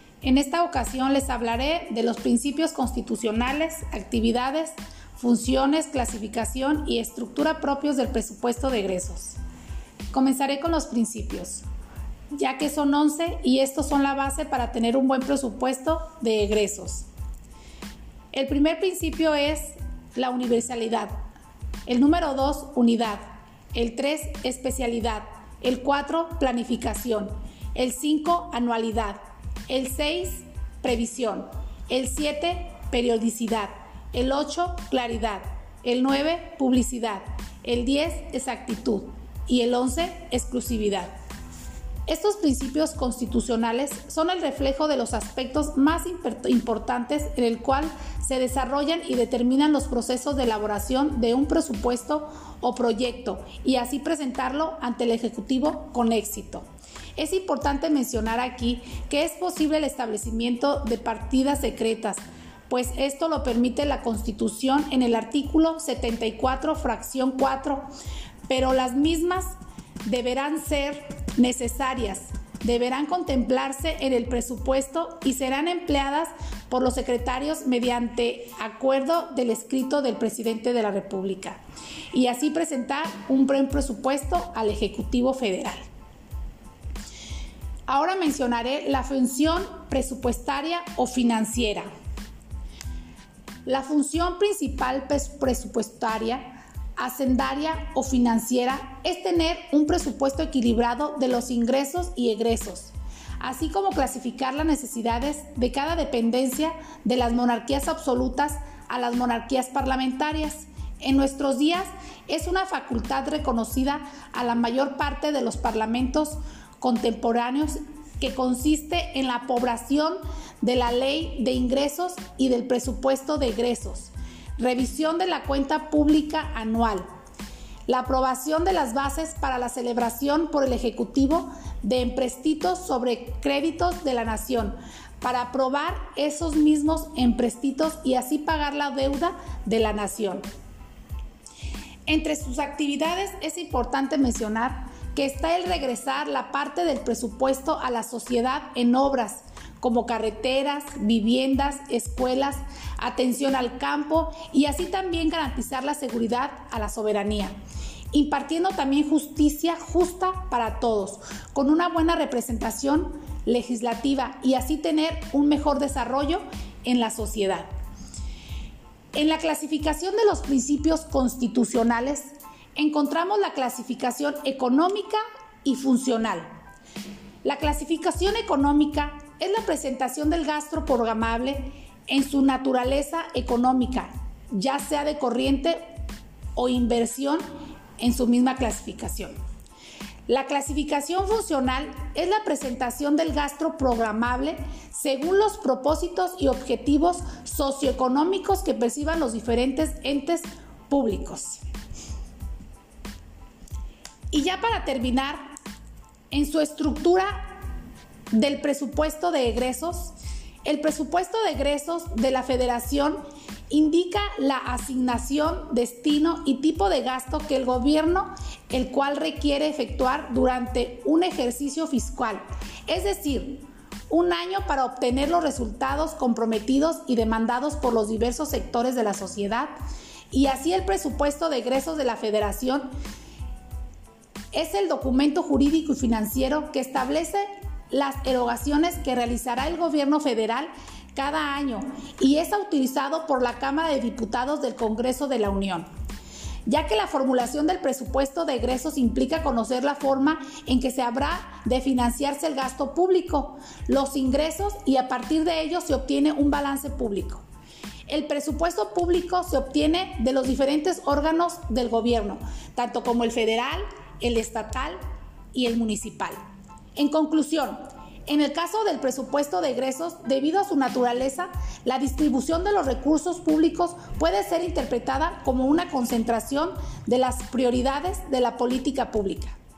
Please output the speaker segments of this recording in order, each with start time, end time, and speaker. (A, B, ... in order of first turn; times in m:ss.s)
0:00.2-0:09.4 A
0:10.1-0:11.6 A
0:12.3-0:17.1 A
0:18.3-0:21.1 A
0:21.8-0:23.2 A
0:23.7-0:41.1 A
0:42.1-0:56.6 A
0:57.2-1:07.9 A
1:08.5-1:09.5 A
1:10.0-1:21.6 A
1:22.1-1:25.8 A
1:27.9-1:31.9 A
1:33.7-2:07.1 A
2:07.9-2:20.5 A
2:22.1-2:37.6 A
2:38.1-2:47.7 A
2:49.1-2:56.5 A
2:57.4-3:06.0 A
3:06.6-3:07.5 A
3:08.0-3:09.4 A
3:10.3-3:21.6 A
3:24.3-3:25.5 A
3:26.3-3:27.6 A
3:28.3-3:30.1 A
3:30.6-3:49.7 A
3:50.3-3:52.9 A
3:54.5-4:05.9 A
4:06.7-4:17.4 A
4:18.1-4:25.0 A
4:25.5-4:26.4 A
4:27.0-4:39.6 A